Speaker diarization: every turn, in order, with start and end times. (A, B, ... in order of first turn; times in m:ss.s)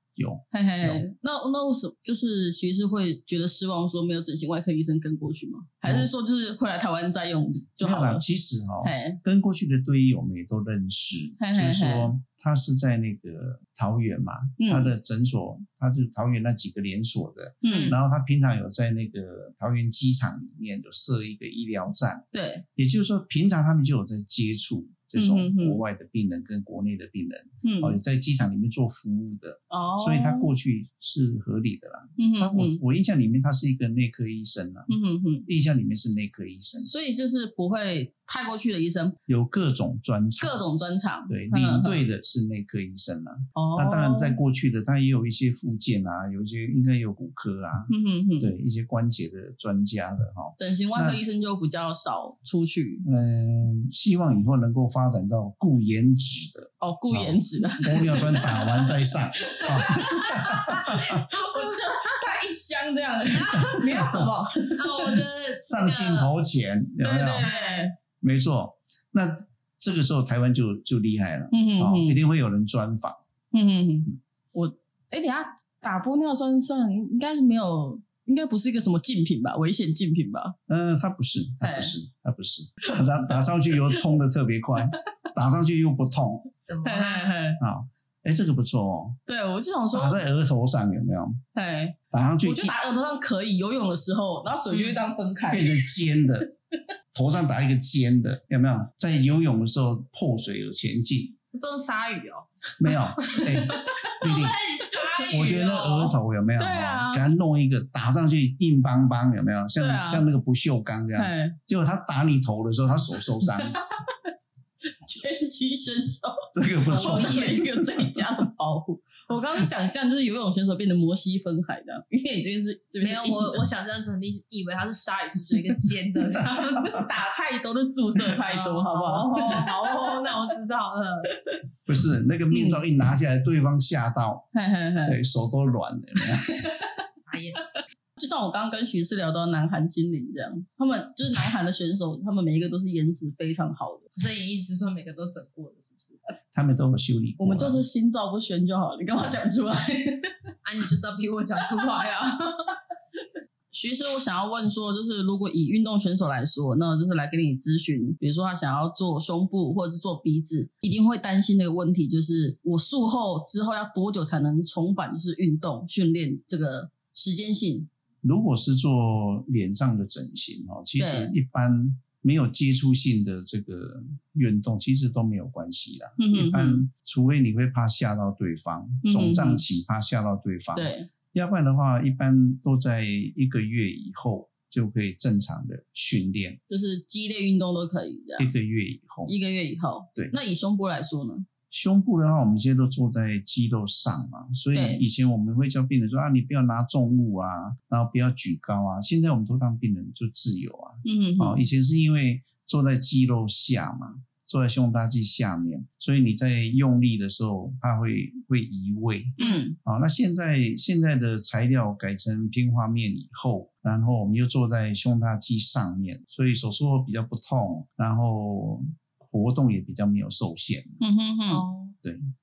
0:00.2-0:01.0 A
0:00.5-0:08.2 B
0:05.8-0:06.1 A
0:07.8-0:36.9 A
0:08.8-0:09.2 B
0:11.4-0:12.1 B
0:14.6-0:14.9 B
0:17.6-0:18.0 B
0:17.6-0:18.0 C
0:22.3-0:22.6 B
0:25.2-0:25.8 B
0:27.6-0:28.0 B
0:29.7-0:30.5 B
0:32.2-0:32.8 B
0:34.9-0:35.5 B
0:36.8-0:39.2 B
0:39.3-0:40.6 A
0:40.4-0:42.0 B
0:41.3-0:51.2 A
0:43.5-0:44.4 B
0:47.9-0:48.5 B
0:50.6-0:53.0 B
0:53.0-1:01.2 A
0:56.8-0:58.7 B
0:59.4-1:05.2 B
1:03.3-1:04.2 C
1:03.9-1:04.2 A
1:04.8-1:06.3 C
1:05.6-1:07.5 A
1:07.0-1:07.9 B
1:07.4-1:07.9 C
1:08.2-1:13.2 A
1:11.5-1:12.2 B
1:13.5-1:20.5 B
1:20.7-1:26.5 A
1:21.6-1:21.9 B
1:22.9-1:24.0 B
1:26.5-1:27.4 C
1:26.8-1:27.6 B
1:27.6-1:29.2 A
1:29.3-1:30.2 B
1:29.9-1:31.4 A
1:31.5-1:35.9 B
1:32.1-1:32.7 A
1:34.7-1:35.0 C
1:35.5-1:36.5 A
1:37.1-1:41.4 A
1:41.5-1:42.5 C
1:42.8-1:44.6 A
1:43.0-1:43.5 C
1:43.6-1:43.9 B
1:44.2-1:46.2 C
1:45.3-1:53.8 A
1:46.6-1:47.2 B
1:49.8-1:50.2 B
1:51.2-1:51.6 B
1:53.5-1:54.1 B
1:55.0-2:03.6 B
1:56.5-1:58.2 A
1:56.9-1:57.6 C
2:03.0-2:07.0 C
2:06.7-2:10.2 B
2:08.4-2:11.3 C
2:11.9-2:14.5 A
2:12.5-2:12.8 B
2:14.5-2:15.2 B
2:15.0-2:16.5 A
2:16.4-2:16.9 B
2:17.2-2:17.7 C
2:18.2-2:24.1 B
2:24.2-2:26.2 C
2:26.5-2:27.8 A
2:27.4-2:30.3 B
2:30.6-2:32.8 C
2:33.7-2:47.9 B
2:48.2-3:06.6 A
2:51.0-2:51.3 B
2:56.2-2:56.8 B
2:59.0-2:59.6 B
3:00.8-3:01.1 B
3:06.7-3:08.5 B
3:08.4-3:09.3 A
3:09.3-3:11.5 B
3:11.7-3:41.0 A
3:14.7-3:15.0 B
3:21.0-3:21.6 B
3:29.4-3:29.8 B
3:41.0-3:41.6 B
3:41.5-3:42.0 C